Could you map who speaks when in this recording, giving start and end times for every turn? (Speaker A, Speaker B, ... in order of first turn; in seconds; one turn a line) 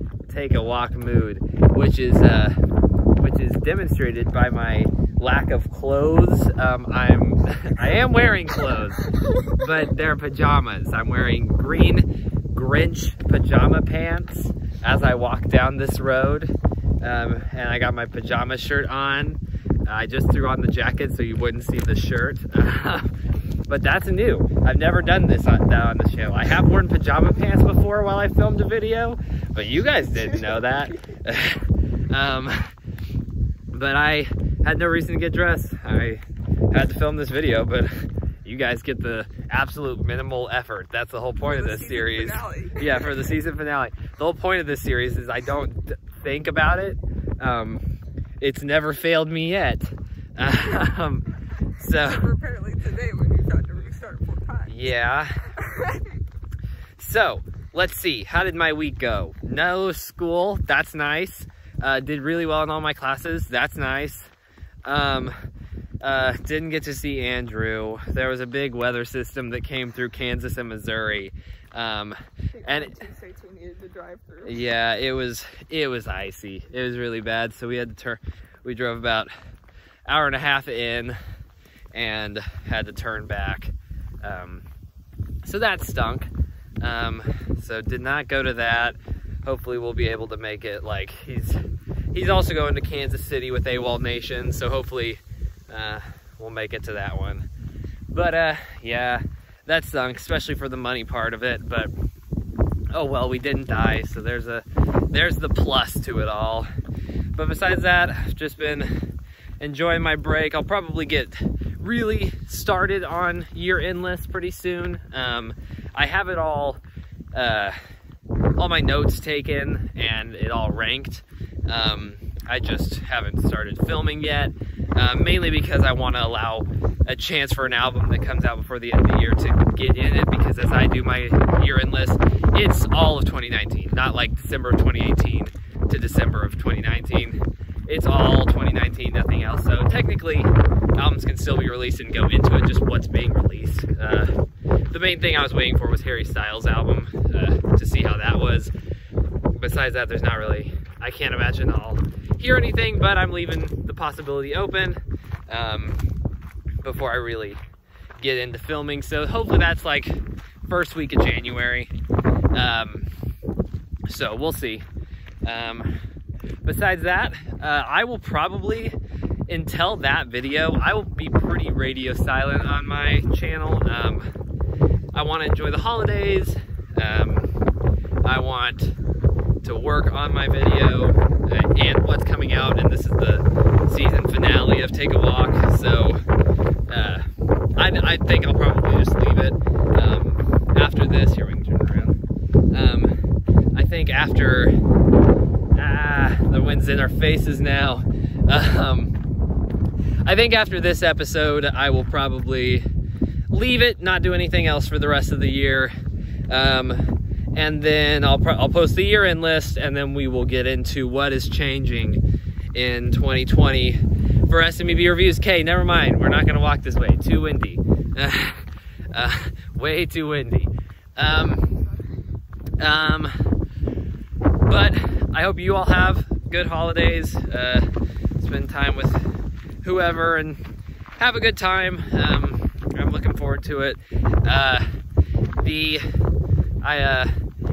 Speaker A: 0.3-2.6
Speaker A: 3.2-23.1
Speaker A: 23.7-32.7
Speaker A: 33.7-47.9
Speaker B: 41.4-43.3
Speaker A: 48.4-52.3
Speaker B: 51.9-54.8
Speaker A: 54.7-55.5
Speaker B: 55.6-56.1
Speaker A: 57.0-64.3
Speaker A: 64.8-65.3
Speaker A: 66.0-73.0
Speaker B: 72.6-74.6
Speaker A: 74.5-79.3
Speaker A: 80.1-81.2
Speaker A: 81.9-84.7
Speaker A: 85.4-86.3
Speaker A: 86.8-91.6
Speaker A: 92.1-97.5
Speaker A: 98.1-101.9
Speaker A: 102.9-106.7
Speaker A: 107.4-108.9
Speaker A: 109.6-116.8
Speaker A: 117.3-117.8
Speaker A: 118.6-144.3
Speaker A: 144.9-148.7
Speaker A: 149.5-156.0
Speaker A: 156.8-157.6
Speaker A: 158.2-161.9
Speaker A: 162.5-163.1
Speaker A: 164.1-164.9
Speaker A: 165.4-165.9
Speaker A: 166.6-169.0
Speaker A: 169.5-174.3
Speaker A: 175.1-177.5
Speaker A: 178.2-179.0
Speaker A: 179.6-186.2
Speaker A: 186.9-187.2
Speaker A: 187.8-192.2
Speaker A: 192.7-193.2
Speaker A: 193.8-194.8
Speaker A: 195.8-199.1
Speaker A: 200.2-202.8
Speaker A: 203.5-205.9
Speaker A: 206.5-212.2
Speaker A: 212.7-221.7
Speaker A: 222.8-223.3
Speaker A: 224.7-227.9
Speaker A: 228.4-229.3
Speaker A: 229.8-230.6
Speaker A: 231.2-234.8
Speaker A: 235.6-236.0
Speaker A: 236.8-237.3